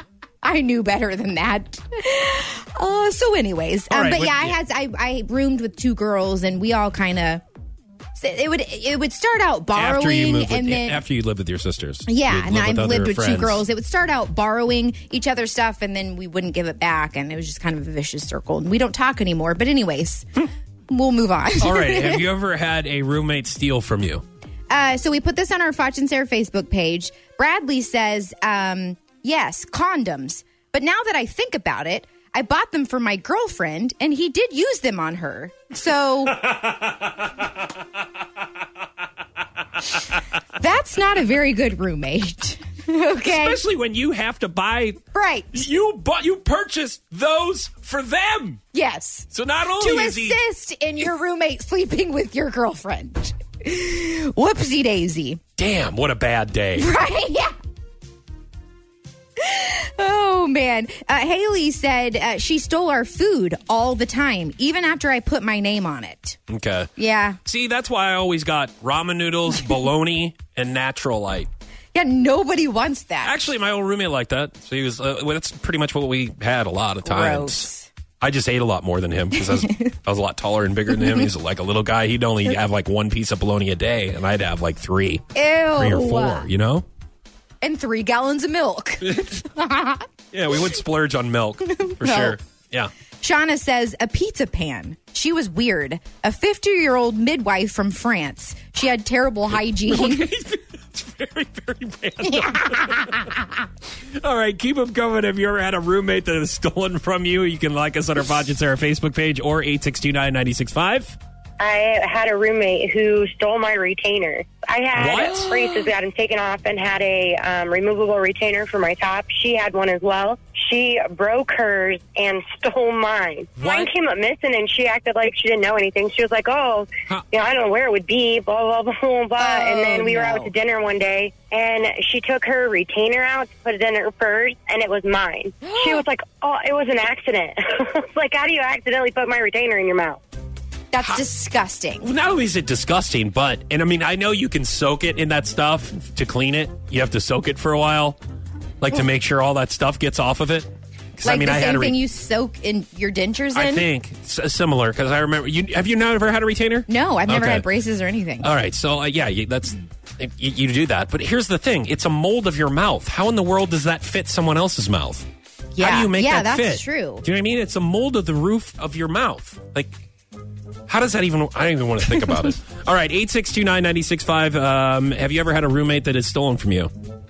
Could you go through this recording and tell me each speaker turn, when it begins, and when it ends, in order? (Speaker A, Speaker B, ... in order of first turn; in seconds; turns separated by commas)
Speaker A: 0.4-7.4, Speaker B: 3.9-4.6, Speaker A: 8.2-11.0, Speaker B: 9.7-13.6, Speaker A: 12.1-20.2, Speaker A: 20.9-22.3, Speaker B: 21.6-24.2, Speaker A: 24.7-36.4, Speaker B: 36.5-37.1, Speaker A: 40.6-43.6, Speaker B: 43.2-45.0, Speaker A: 45.1-45.6, Speaker B: 45.5-48.6, Speaker A: 48.7-55.4, Speaker B: 49.3-50.4, Speaker B: 55.6-56.9, Speaker A: 56.8-57.5, Speaker A: 59.4-66.4, Speaker B: 66.5-66.9, Speaker A: 67.0-67.4, Speaker B: 67.4-71.5, Speaker A: 71.9-73.4, Speaker B: 73.2-77.7, Speaker A: 77.0-77.9, Speaker B: 78.2-86.8, Speaker A: 79.4-79.9, Speaker A: 80.9-81.3, Speaker A: 85.3-86.5, Speaker A: 87.6-90.1, Speaker B: 89.0-89.4, Speaker B: 90.3-92.9, Speaker A: 91.7-92.4, Speaker A: 93.2-100.3, Speaker B: 99.5-103.4, Speaker A: 102.2-103.2, Speaker B: 104.1-111.2, Speaker C: 111.6-140.2, Speaker B: 115.0-115.5, Speaker B: 123.6-123.9, Speaker A: 129.4-130.5, Speaker A: 135.6-136.0, Speaker A: 140.9-142.1, Speaker B: 142.0-148.2, Speaker B: 148.8-151.9, Speaker A: 151.2-153.9, Speaker B: 153.5-157.7, Speaker A: 156.9-158.5, Speaker B: 158.4-165.2, Speaker A: 165.7-167.2, Speaker B: 165.8-170.0, Speaker B: 170.9-176.9